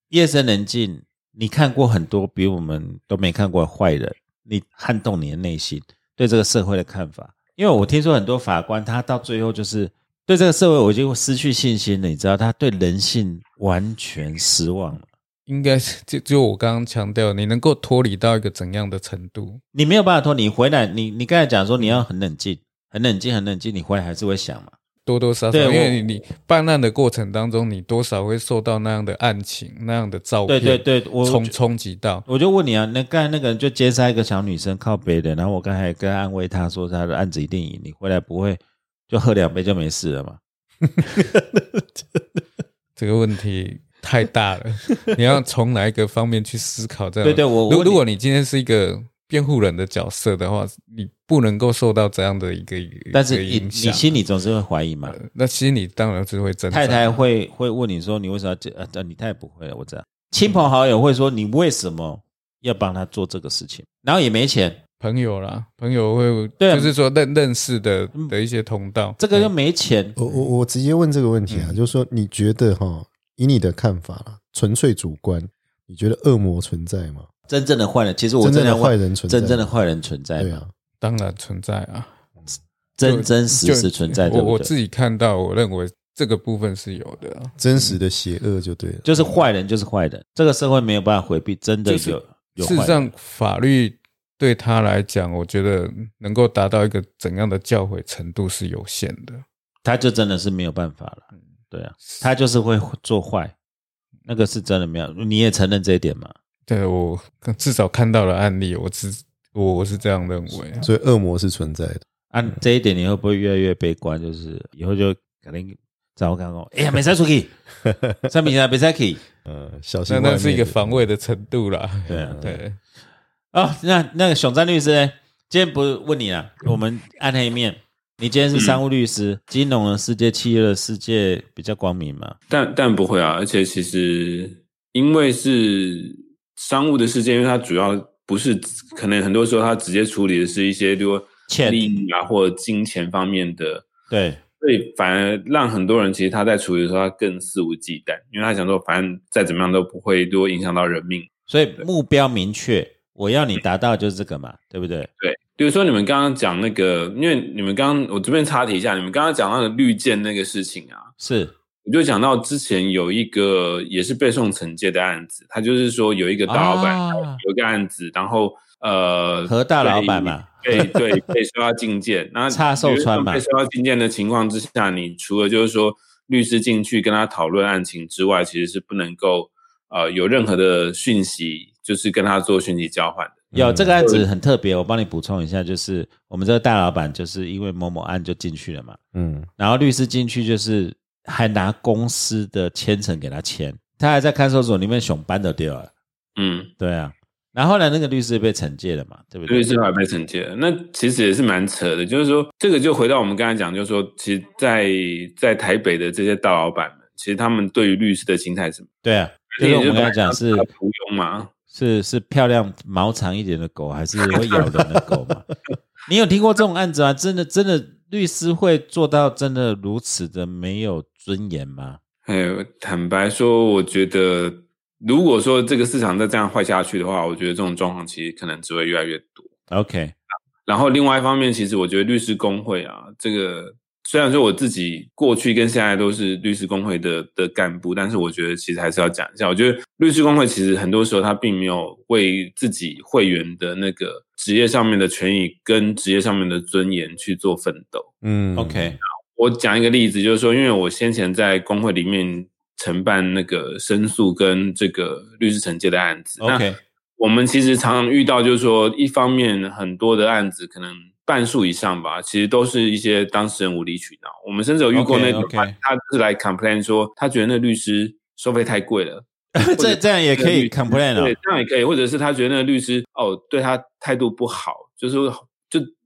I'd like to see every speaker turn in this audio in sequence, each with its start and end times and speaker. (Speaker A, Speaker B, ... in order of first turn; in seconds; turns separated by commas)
Speaker A: 0.1-15.1, Speaker B: 15.5-19.6, Speaker A: 19.7-24.7, Speaker B: 21.8-22.0, Speaker B: 25.0-32.2, Speaker A: 25.5-26.0, Speaker A: 30.4-31.6, Speaker A: 32.3-40.4, Speaker C: 41.0-42.2, Speaker B: 43.0-54.1, Speaker A: 47.2-48.0, Speaker A: 53.1-55.2, Speaker B: 55.1-57.1, Speaker A: 56.7-64.8, Speaker B: 65.0-69.5, Speaker A: 66.6-66.9, Speaker A: 69.2-70.2, Speaker C: 70.2-77.3, Speaker B: 71.5-71.8, Speaker A: 77.5-80.6, Speaker C: 78.4-79.8, Speaker C: 80.3-80.7, Speaker B: 81.0-82.1, Speaker A: 83.0-84.7, Speaker B: 83.0-88.0, Speaker C: 87.6-89.3, Speaker A: 89.0-93.1, Speaker B: 91.8-99.4, Speaker A: 99.8-103.5, Speaker A: 104.3-106.3, Speaker B: 106.7-110.9, Speaker C: 110.8-112.0, Speaker A: 112.3-117.5, Speaker C: 117.8-118.3, Speaker A: 118.3-119.2, Speaker C: 119.4-121.1, Speaker B: 120.1-122.8, Speaker A: 122.1-122.6, Speaker A: 123.5-132.4, Speaker D: 128.5-128.8, Speaker D: 132.5-143.9, Speaker A: 141.5-141.8, Speaker A: 144.1-144.4, Speaker D: 144.6-151.3, Speaker A: 151.5-155.1, Speaker D: 155.2-161.1, Speaker A: 161.2-161.5, Speaker D: 161.8-183.5, Speaker A: 166.5-167.4, Speaker A: 169.4-171.0, Speaker A: 172.5-173.4, Speaker C: 183.5-184.1, Speaker A: 183.5-189.0, Speaker D: 184.0-184.2, Speaker C: 189.1-189.5, Speaker A: 189.6-195.9, Speaker D: 196.3-196.7, Speaker A: 196.8-199.7, Speaker D: 199.5-208.9, Speaker A: 209.0-210.7, Speaker D: 209.5-211.5, Speaker A: 211.7-215.5, Speaker D: 214.3-214.7, Speaker A: 216.1-222.0, Speaker D: 222.2-229.5, Speaker A: 229.7-230.1, Speaker D: 230.7-248.1, Speaker C: 248.2-249.0, Speaker A: 248.6-249.0, Speaker D: 249.3-256.6, Speaker A: 256.4-256.8, Speaker D: 257.2-275.9, Speaker A: 264.9-265.7, Speaker A: 269.5-271.4